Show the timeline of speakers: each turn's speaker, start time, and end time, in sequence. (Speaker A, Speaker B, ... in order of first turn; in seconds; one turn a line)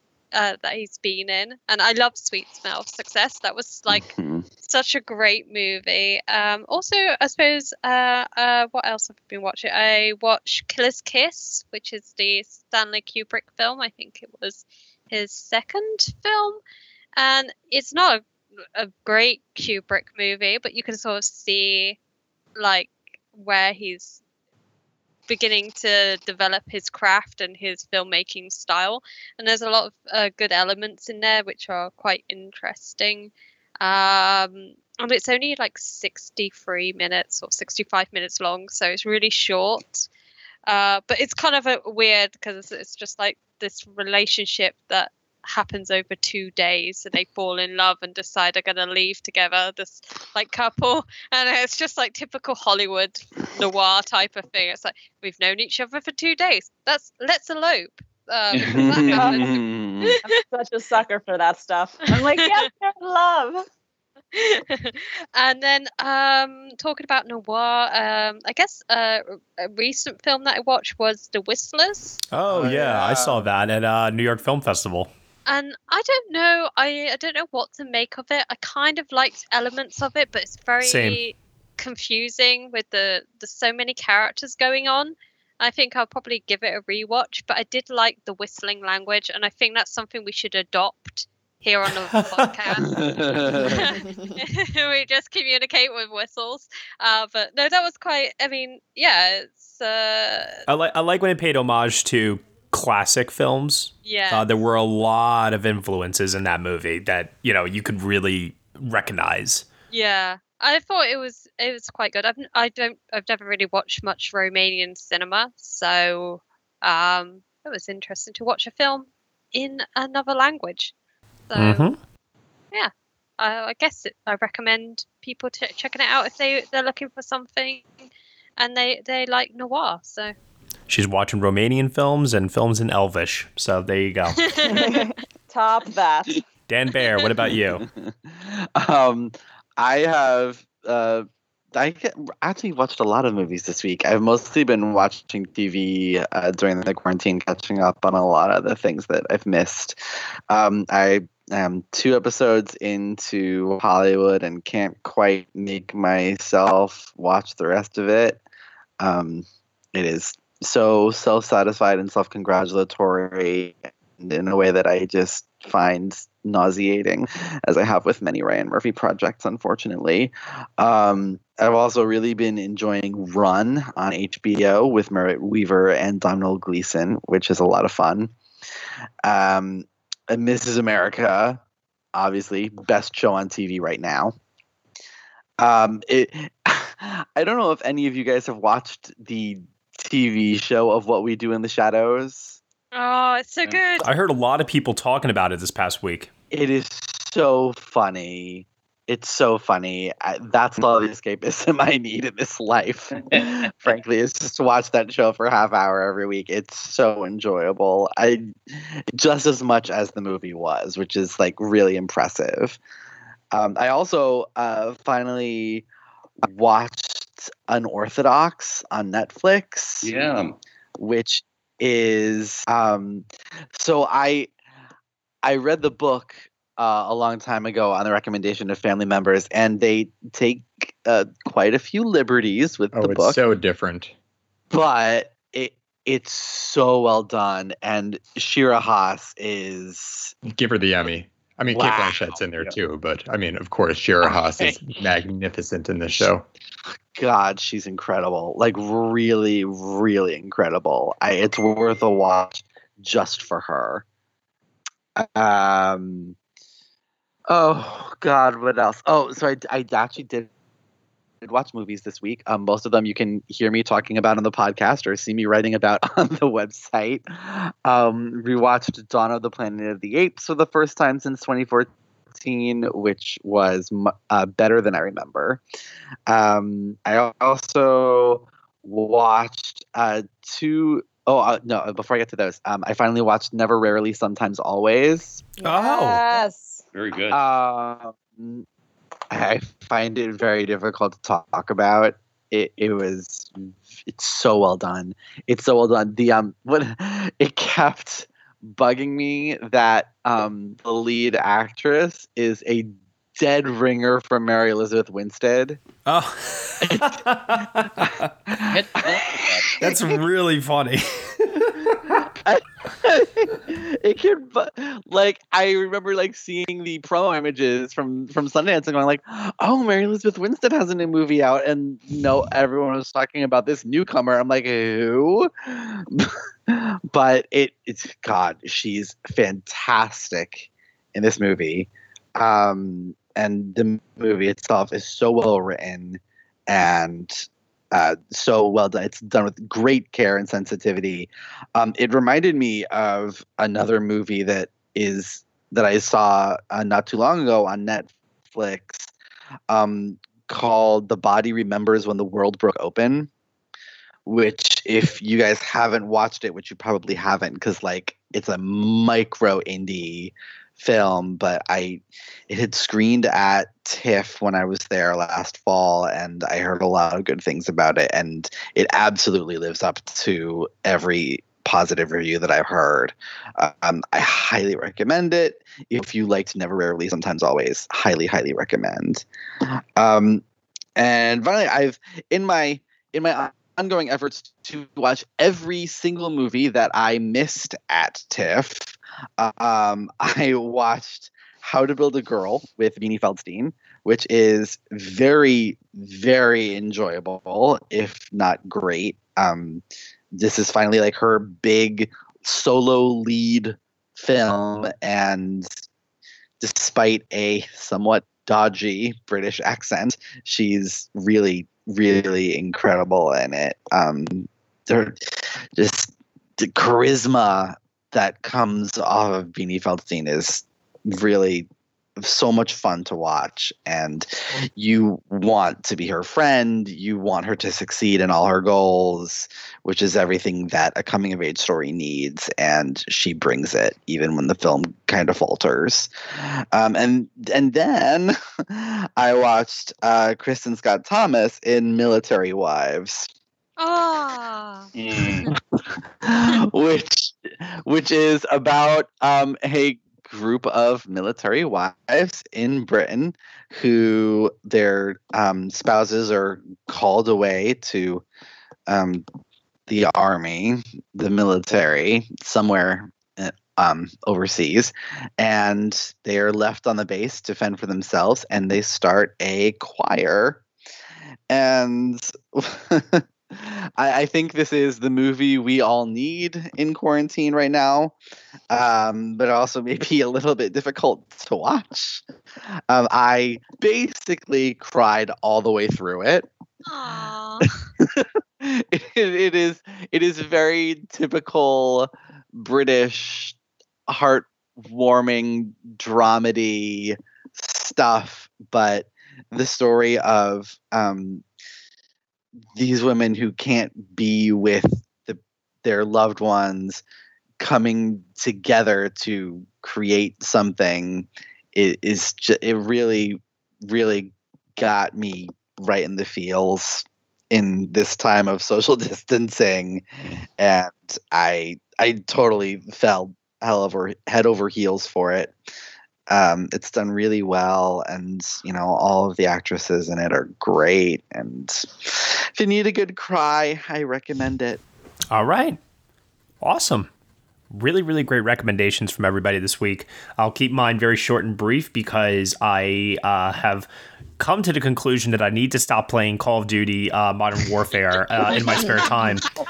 Speaker A: 0.3-4.1
Speaker B: 3.9-4.5
Speaker A: 4.6-16.6
Speaker A: 17.2-18.2
Speaker A: 18.7-22.0
Speaker A: 22.6-24.2
Speaker A: 25.3-40.1
Speaker A: 40.6-60.4
Speaker C: 58.5-59.3
Speaker B: 58.6-60.1
Speaker D: 60.2-63.6
Speaker A: 62.1-62.6
Speaker A: 64.3-72.2
Speaker E: 72.3-75.1
Speaker B: 72.5-73.4
Speaker A: 75.5-100.6
Speaker E: 80.8-81.2
Speaker E: 92.1-92.5
Speaker B: 92.8-94.0
Speaker E: 100.7-109.7
Speaker A: 104.0-104.5
Speaker A: 109.9-120.9
Speaker A: 121.5-121.9
Speaker E: 121.5-122.0
Speaker A: 122.7-128.1
Speaker A: 128.6-130.3
Speaker E: 130.9-134.4
Speaker A: 134.4-135.1
Speaker D: 134.7-136.4
Speaker E: 136.7-137.8
Speaker B: 138.3-149.9
Speaker B: 150.5-158.4
Speaker B: 159.0-178.3
Speaker B: 179.2-181.6
Speaker B: 182.1-184.3
Speaker B: 185.6-192.6
Speaker A: 192.9-194.1
Speaker E: 194.0-196.3
Speaker B: 196.5-212.8
Speaker B: 213.5-215.8
Speaker B: 216.4-220.1
Speaker C: 220.0-220.5
Speaker B: 221.0-224.5
Speaker B: 225.4-233.4
Speaker F: 232.9-234.1
Speaker B: 234.7-240.3
Speaker F: 240.4-246.4
Speaker B: 241.7-242.4
Speaker B: 247.1-254.0
Speaker B: 255.2-256.3
Speaker B: 257.5-260.5
Speaker B: 261.4-275.6
Speaker B: 276.3-285.5
Speaker D: 285.6-286.8
Speaker E: 285.6-286.2
Speaker C: 286.9-287.4
Speaker B: 287.3-288.6
Speaker B: 289.3-293.5
Speaker B: 294.1-305.8
Speaker E: 306.1-308.3
Speaker B: 306.8-307.2
Speaker B: 308.5-310.1
Speaker C: 308.6-309.8
Speaker E: 309.8-312.2
Speaker B: 312.4-349.1
Speaker B: 349.7-353.3
Speaker B: 354.2-379.2
Speaker B: 379.9-380.4
Speaker B: 380.9-405.7
Speaker B: 406.6-415.2
Speaker B: 415.8-421.6
Speaker B: 422.2-443.3
Speaker A: 443.8-444.9
Speaker C: 444.9-445.5
Speaker B: 446.2-458.2
Speaker B: 458.9-459.2
Speaker B: 459.9-470.6
Speaker B: 471.5-478.1
Speaker B: 478.7-482.2
Speaker B: 482.9-486.5
Speaker A: 486.9-487.8
Speaker B: 488.0-493.5
Speaker B: 494.1-501.4
Speaker B: 502.7-507.0
Speaker B: 507.6-520.0
Speaker B: 520.6-525.5
Speaker B: 526.3-534.8
Speaker E: 535.3-535.8
Speaker E: 536.6-537.1
Speaker E: 537.7-543.9
Speaker E: 544.4-549.4